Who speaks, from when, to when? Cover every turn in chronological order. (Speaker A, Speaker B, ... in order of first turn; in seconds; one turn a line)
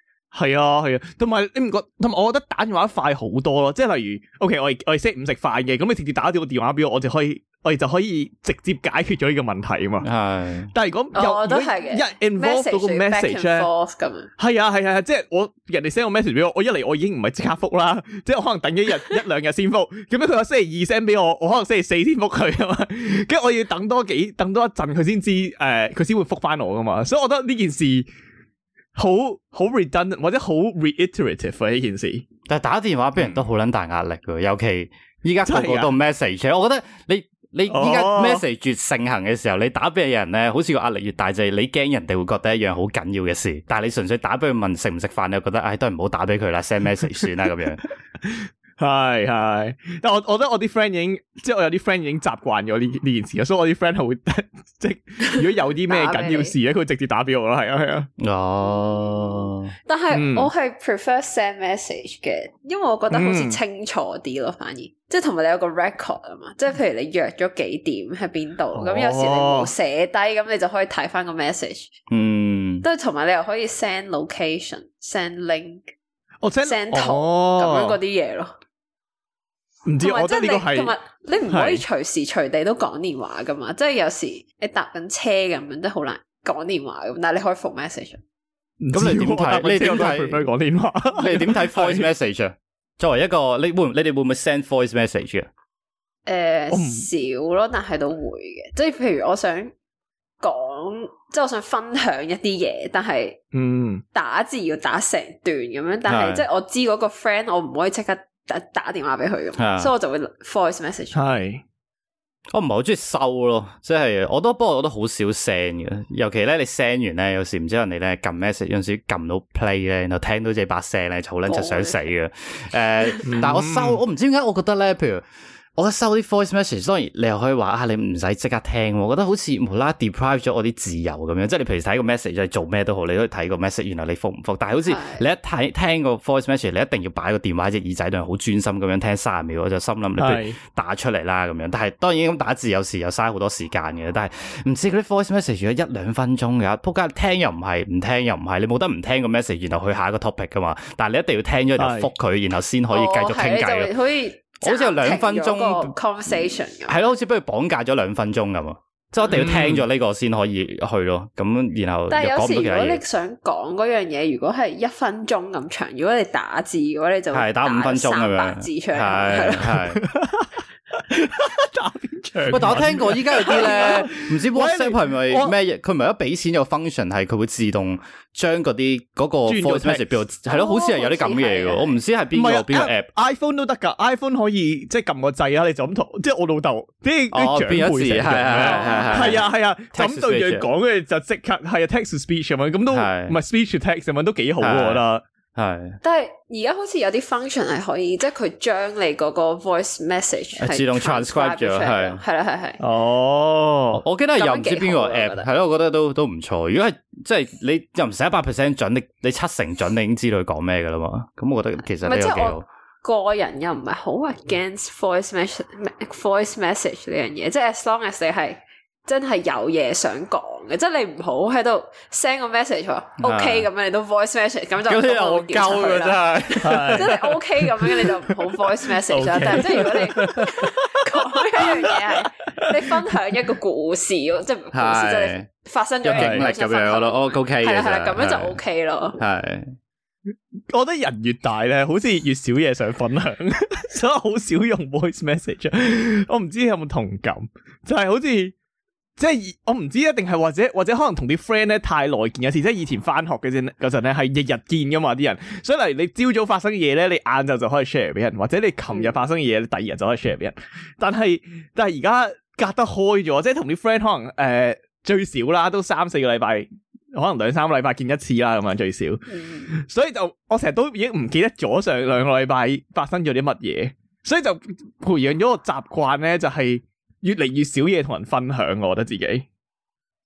Speaker A: 0.3-10.1
Speaker B: 10.0-10.7
Speaker A: 10.7-13.7
Speaker C: 11.1-14.3
Speaker A: 14.4-28.1
Speaker A: 28.9-32.2
Speaker B: 32.5-47.8
Speaker A: 35.4-35.9
Speaker A: 37.7-38.4
Speaker A: 48.2-58.1
Speaker C: 55.3-56.5
Speaker B: 58.2-59.7
Speaker C: 58.9-71.9
Speaker A: 60.1-60.5
Speaker A: 63.1-63.6
Speaker A: 68.8-69.7
Speaker B: 72.1-72.8
Speaker C: 72.8-75.8
Speaker A: 76.4-78.0
Speaker C: 76.6-78.5
Speaker A: 79.8-80.9
Speaker C: 80.0-88.2
Speaker A: 81.5-81.8
Speaker A: 88.8-92.1
Speaker B: 88.9-90.4
Speaker B: 91.2-95.5
Speaker C: 96.2-99.7
Speaker A: 96.7-97.0
Speaker C: 100.4-103.4
Speaker A: 103.5-104.0
Speaker C: 104.1-111.2
Speaker B: 106.1-106.4
Speaker B: 109.6-109.9
Speaker A: 111.1-111.6
Speaker B: 112.5-125.2
Speaker C: 121.5-122.1
Speaker A: 123.2-124.0
Speaker B: 125.8-153.9
Speaker C: 134.8-135.2
Speaker A: 140.2-140.6
Speaker A: 151.8-152.1
Speaker C: 152.9-157.0
Speaker B: 154.6-163.0
Speaker A: 159.3-159.8
Speaker C: 162.1-169.9
Speaker B: 167.3-170.0
Speaker A: 169.9-175.5
Speaker B: 172.5-183.1
Speaker A: 179.4-180.1
Speaker C: 180.5-182.0
Speaker A: 182.3-195.2
Speaker B: 187.3-190.7
Speaker C: 188.6-189.4
Speaker B: 192.9-193.3
Speaker B: 194.6-195.0
Speaker B: 195.5-196.0
Speaker C: 196.0-202.8
Speaker B: 200.6-202.2
Speaker A: 202.8-204.0
Speaker B: 203.9-212.6
Speaker C: 204.3-205.5
Speaker C: 212.0-239.2
Speaker B: 223.2-223.7
Speaker B: 224.8-227.2
Speaker A: 226.6-227.3
Speaker A: 229.1-230.4
Speaker B: 229.6-230.4
Speaker A: 231.6-232.7
Speaker B: 234.7-235.4
Speaker B: 236.0-238.6
Speaker A: 236.1-236.5
Speaker B: 239.2-239.7
Speaker A: 240.7-248.5
Speaker A: 249.2-279.5
Speaker C: 258.9-259.2
Speaker C: 269.3-269.7